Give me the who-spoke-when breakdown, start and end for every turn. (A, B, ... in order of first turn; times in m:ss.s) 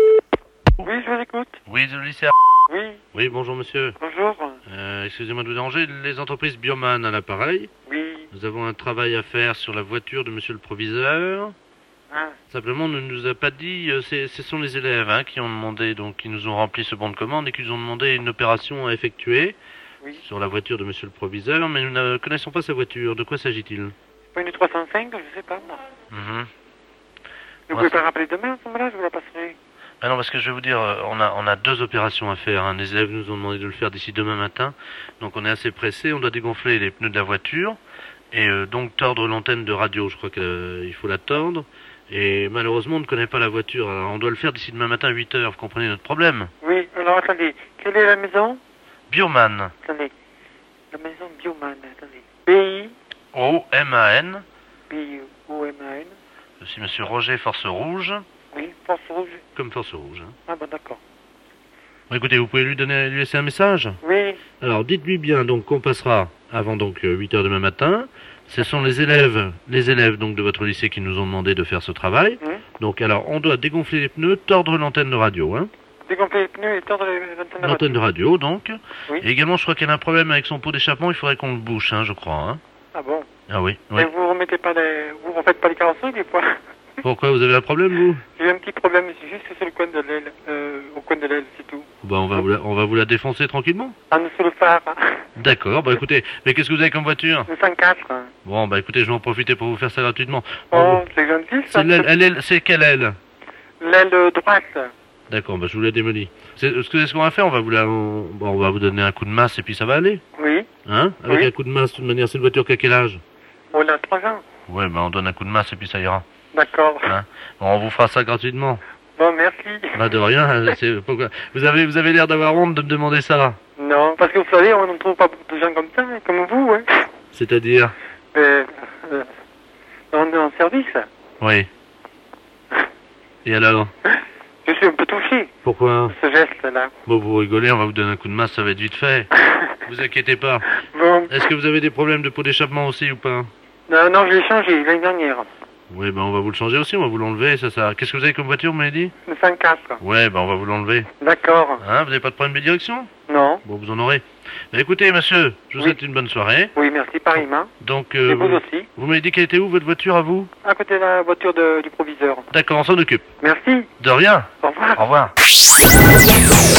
0:00.8-0:01.6 A
0:01.7-0:02.3 B
0:02.7-0:03.0 A
0:03.1-0:04.0 B
0:04.0-0:04.6 A
0:04.7-0:07.7 B
0:07.9-0:08.3 A
0:08.3-0:11.6 B
0:12.1-0:12.4 A
0:12.5-0:19.6 B
0:20.2-0:24.0 B
0:24.3-0:25.8 A
0:26.1-0:26.5 B
0:27.7-0:29.6 A
0:27.7-0:28.0 B
0:30.0-0:37.8 B
0:38.3-0:46.5 B
0:46.6-0:48.6 A
0:49.1-0:49.7 B
0:49.8-0:50.1 A
0:50.9-0:53.0 A
0:53.3-0:54.4 B
0:54.9-0:56.1 A
0:56.6-0:58.2 B
0:58.5-0:59.4 A
0:59.6-1:00.4 B
1:00.5-1:01.0 A
1:02.1-1:04.0 B
1:04.0-1:04.4 A
1:04.6-1:15.7 B
1:16.1-1:18.0 A
1:17.6-1:22.6 B
1:22.9-1:23.3 A
1:23.5-1:24.1 B
1:24.0-1:26.6 A
1:27.0-1:28.2 B
1:28.4-1:32.4 A
1:32.0-1:34.0 B
1:34.1-1:35.2 A
1:35.4-1:37.5 B
1:37.5-1:38.3 A
1:38.5-1:41.1 B
1:40.7-1:42.1 A
1:41.7-1:43.2 B
1:43.8-1:44.9 A
1:45.3-1:50.2 B
1:50.4-1:50.7 A
1:50.9-1:53.2 B
1:53.7-1:54.4 A
1:54.7-1:56.2 B
1:56.5-1:57.1 A
1:57.1-1:58.8 B
1:59.2-2:00.0 A
2:00.0-2:03.6 B
2:03.8-2:07.1 A
2:07.3-2:08.0 B
2:08.3-2:09.3 A
2:10.1-2:11.1 A
2:11.4-2:11.7 B
2:13.4-2:13.9 B
2:14.6-2:15.5 A
2:15.6-2:16.2 B
2:16.1-2:16.9 A
2:17.1-2:19.3 B
2:19.8-2:20.7 B
2:20.8-2:21.4 A
2:21.3-2:23.5 B
2:23.9-2:25.5 A
2:25.9-2:29.1 B
2:29.3-2:30.0 A
2:30.0-2:31.1 B
2:31.2-2:31.8 A
2:31.8-2:33.1 B
2:33.3-2:33.6 A
2:33.6-2:36.7 B
2:36.7-2:37.7 A
2:37.8-2:40.5 B
2:38.3-2:38.9 A
2:40.6-2:42.5 A
2:42.5-2:43.3 B
2:43.4-2:43.9 A
2:44.0-2:45.3 B
2:44.6-2:45.0 A